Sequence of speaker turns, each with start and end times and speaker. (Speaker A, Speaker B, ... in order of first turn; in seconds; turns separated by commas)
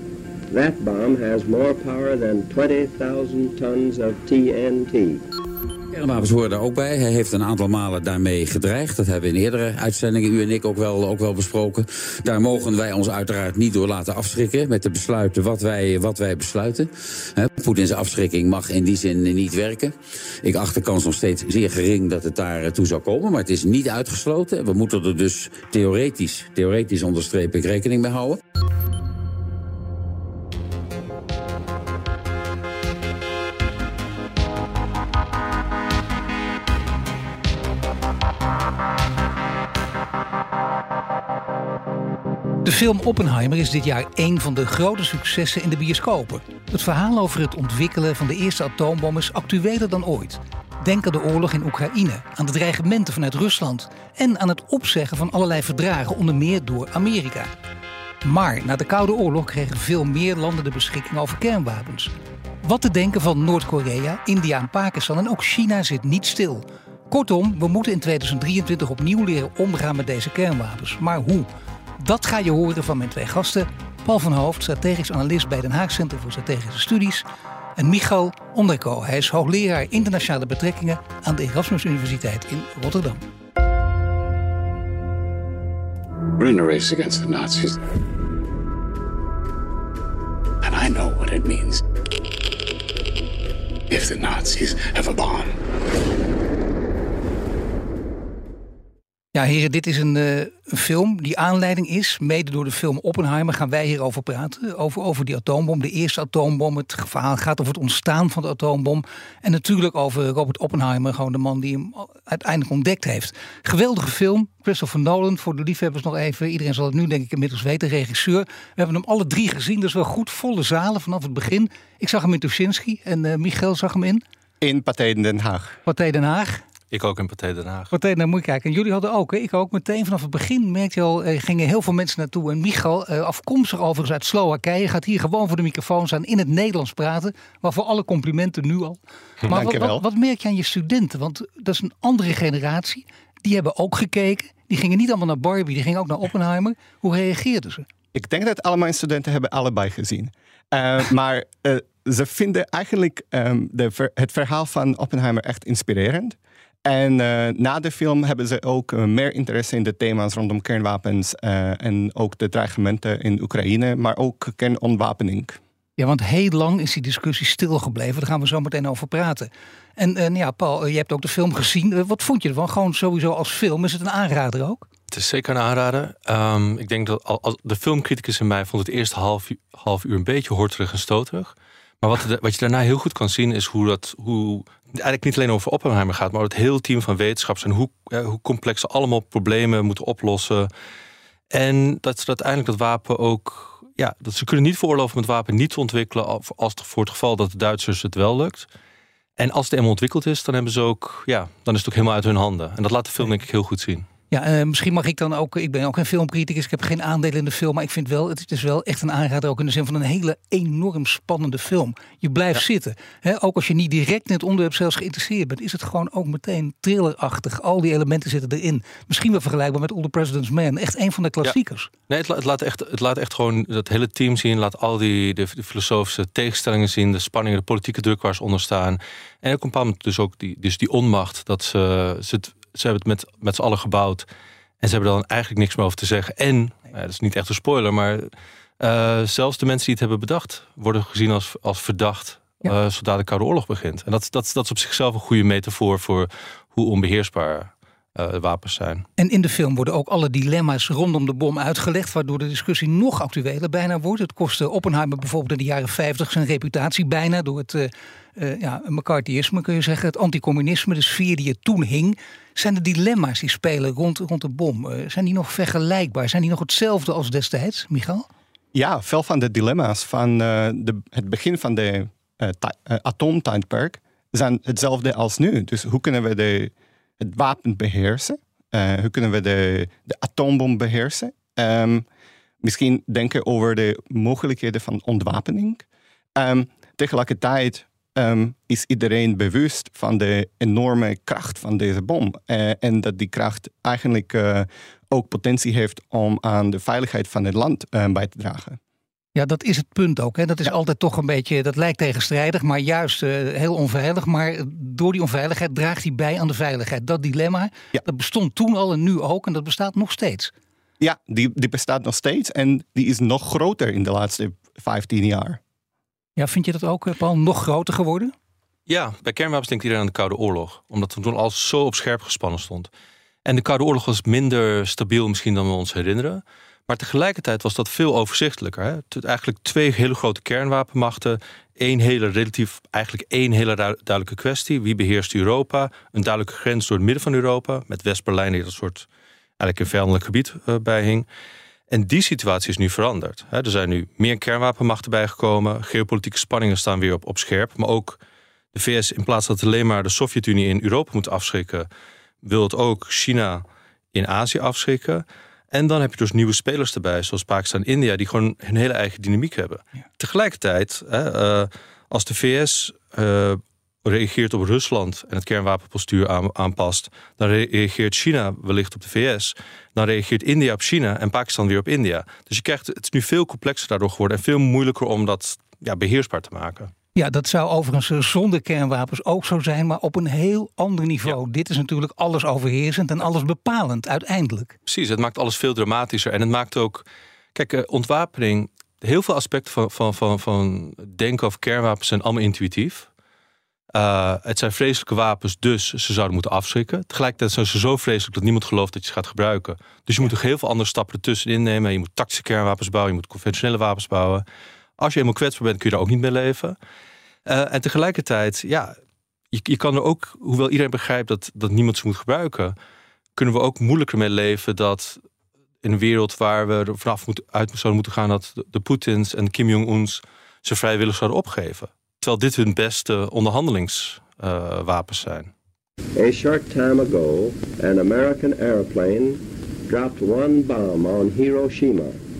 Speaker A: 0.5-5.2, Speaker B: 5.9-28.4, Speaker C: 42.6-57.5, Speaker C: 58.2-71.5, Speaker C: 72.0-77.2, Speaker C: 77.8-83.2, Speaker D: 86.4-87.8, Speaker D: 90.6-91.8, Speaker D: 93.9-95.6, Speaker C: 99.3-124.2, Speaker E: 124.6-125.8, Speaker C: 125.9-126.6, Speaker F: 126.9-127.9, Speaker C: 127.9-147.8, Speaker E: 139.5-140.0, Speaker E: 148.1-165.6, Speaker C: 166.0-174.8, Speaker F: 175.1-190.7, Speaker F: 191.5-198.7, Speaker F: 199.4-204.1, Speaker C: 204.3-221.9, Speaker F: 222.1-234.3, Speaker F: 234.8-249.1, Speaker C: 249.2-268.3, Speaker E: 268.7-282.1, Speaker E: 282.6-285.8, Speaker E: 286.4-298.8, Speaker C: 299.4-310.5, Speaker E: 311.0-315.6, Speaker C: 316.4-318.3, Speaker F: 318.9-322.9, Speaker F: 323.4-339.1, Speaker F: 339.6-341.3, Speaker F: 341.9-348.2, Speaker F: 348.7-351.9, Speaker F: 352.4-376.9, Speaker C: 377.1-384.7, Speaker F: 384.9-393.1, Speaker F: 393.9-404.4, Speaker F: 405.0-406.8, Speaker F: 407.4-408.9, Speaker F: 409.5-412.8, Speaker F: 413.4-415.2, Speaker F: 415.8-425.5, Speaker A: 426.1-432.2